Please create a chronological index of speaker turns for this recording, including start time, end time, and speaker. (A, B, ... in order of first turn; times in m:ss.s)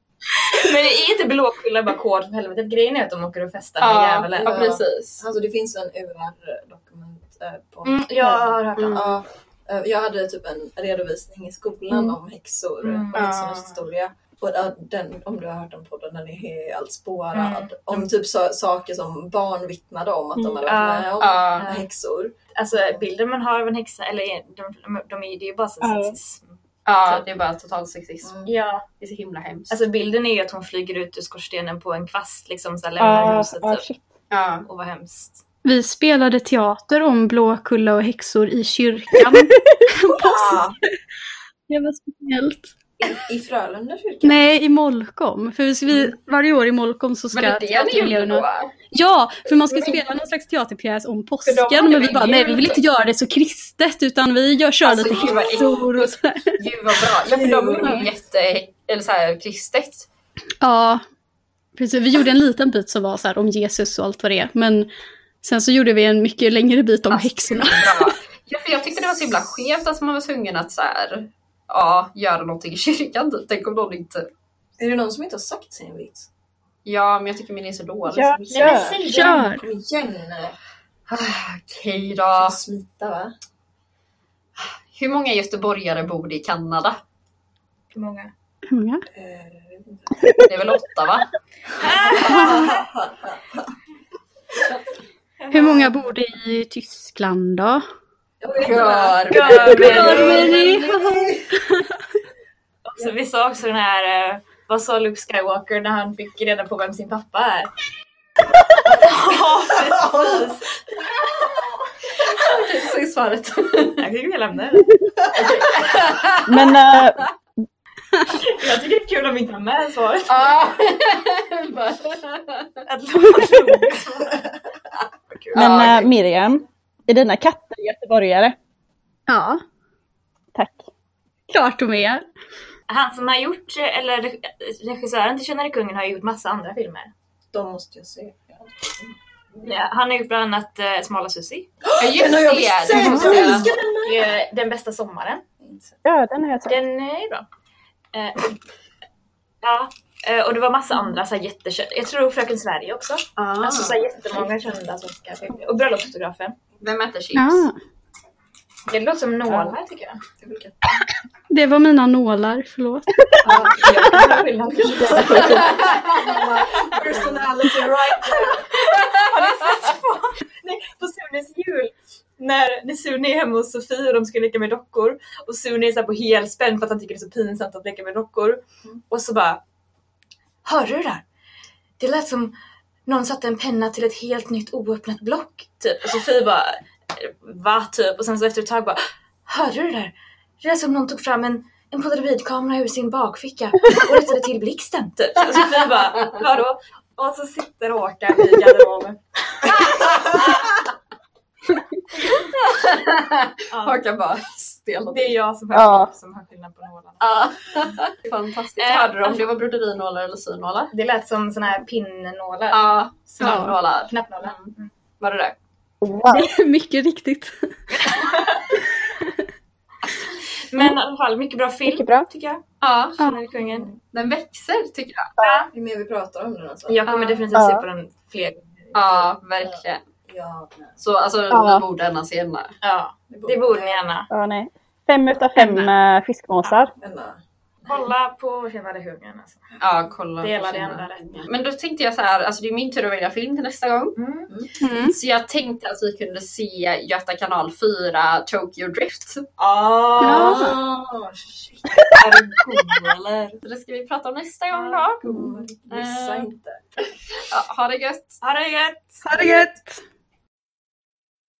0:00.4-0:04.8 A
0:03.8-0:05.2 B
0:04.4-0:22.3 C
0:07.8-0:09.1 A
0:08.8-0:09.0 B
0:12.8-0:13.8 A
0:17.3-0:17.7 A
0:20.6-0:21.9 A
0:21.2-0:21.6 B
0:22.5-0:27.2 A
0:25.8-0:26.1 D
0:26.8-0:28.3 B
0:28.2-0:28.5 C
0:28.4-0:28.8 A
0:29.0-0:29.7 B
0:29.7-0:33.8 A
0:33.0-0:34.1 D
0:34.3-0:34.6 B
0:34.6-0:35.4 A
0:35.6-0:40.7 E
0:40.1-0:40.8 C
0:41.7-0:42.7 E
0:43.0-0:44.5 C
0:44.2-0:56.6 E
0:47.3-0:48.7 B
0:51.4-0:52.8 B
0:54.8-0:55.8 A
0:54.9-1:00.1 B
0:57.3-0:58.1 C
1:00.6-1:01.0 E
1:01.8-1:04.9 E
1:05.4-1:08.2 E
1:07.1-1:14.3 B
1:14.8-1:16.3 C
1:16.8-1:18.8 B
1:18.0-1:19.0 D
1:18.5-1:19.4 A
1:18.9-1:19.6 E
1:19.2-1:20.6 C
1:21.1-1:22.6 B
1:22.4-1:23.3 C
1:24.6-1:27.0 B
1:27.9-1:28.3 A
1:28.7-1:29.0 E
1:29.1-1:30.3 C
1:30.4-1:31.3 B
1:31.8-1:32.8 A
1:32.0-1:33.7 C
1:32.1-1:32.7 E
1:35.4-1:35.9 A
1:35.5-1:37.8 E
1:38.4-1:41.5 C
1:38.6-1:40.9 B
1:38.8-1:40.7 A
1:39.9-1:40.3 D
1:40.0-1:41.3 E
1:42.8-1:47.7 A
1:48.8-1:50.8 A
1:48.9-1:50.5 C
1:51.4-1:51.7 C
1:52.3-1:54.0 B
1:54.0-1:55.9 A
1:55.6-1:56.7 B
1:56.4-1:57.2 D
1:58.3-2:00.8 A
2:00.3-2:02.8 B
2:02.8-2:04.5 A
2:05.3-2:06.0 A
2:05.5-2:06.1 B
2:05.5-2:08.5 D
2:09.3-2:09.6 E
2:10.5-2:10.9 D
2:11.5-2:12.2 E
2:12.9-2:17.1 A
2:17.5-2:19.2 C
2:19.6-2:21.7 A
2:21.8-2:24.3 C
2:22.0-2:23.7 B
2:22.9-2:25.4 A
2:25.6-2:25.9 C
2:26.0-2:26.8 D
2:26.6-2:27.4 A
2:28.1-2:28.6 A
2:29.6-2:36.6 A
2:33.4-2:34.0 B
2:36.8-2:37.7 B
2:37.3-2:37.8 E
2:38.9-2:40.2 A
2:40.4-2:41.0 C
2:41.5-2:43.4 E
2:43.4-2:46.6 A
2:43.5-2:48.7 C
2:45.2-2:47.2 B
2:48.2-2:59.6 A
3:00.6-3:01.2 A
3:02.0-3:02.5 A
3:03.0-3:19.6 A
3:15.6-3:16.3 B
3:19.7-3:20.4 B
3:22.5-3:25.4 B
3:23.7-3:24.0 A
3:25.1-3:28.0 A
3:25.7-3:26.1 D
3:27.2-3:30.9 B
3:28.8-3:29.4 A
3:30.9-3:34.9 A
3:32.7-3:35.5 B
3:33.4-3:33.7 E
3:36.0-3:36.5 D
3:36.3-3:38.2 E
3:37.9-3:38.7 A
3:40.7-3:42.6 A
3:41.9-3:42.2 D
3:42.8-3:43.2 B
3:43.2-3:43.9 A
3:44.1-3:45.3 B
3:45.4-3:45.7 A
3:45.7-3:47.1 C
3:46.9-3:49.3 A
3:47.1-3:47.4 B
3:47.5-3:47.8 D
3:48.9-3:50.0 B
3:50.3-3:51.0 C
3:51.0-3:52.7 B
3:51.5-3:51.8 D
3:52.8-3:54.3 A
3:53.3-3:54.1 C
3:54.3-3:56.9 D
3:55.6-3:55.9 B
3:56.9-3:58.0 C
3:57.9-3:59.6 A
3:59.8-4:04.2 B
4:00.4-4:01.5 A
4:04.2-4:04.5 A
4:04.8-4:05.2 E
4:05.0-4:09.4 B
4:09.6-4:10.7 A
4:10.2-4:10.7 E
4:10.2-4:11.9 C
4:12.1-4:13.6 A
4:13.6-4:16.5 B
4:14.7-4:15.6 A
4:15.2-4:16.8 C
4:17.5-4:18.4 B
4:18.4-4:19.7 A
4:19.2-4:20.0 E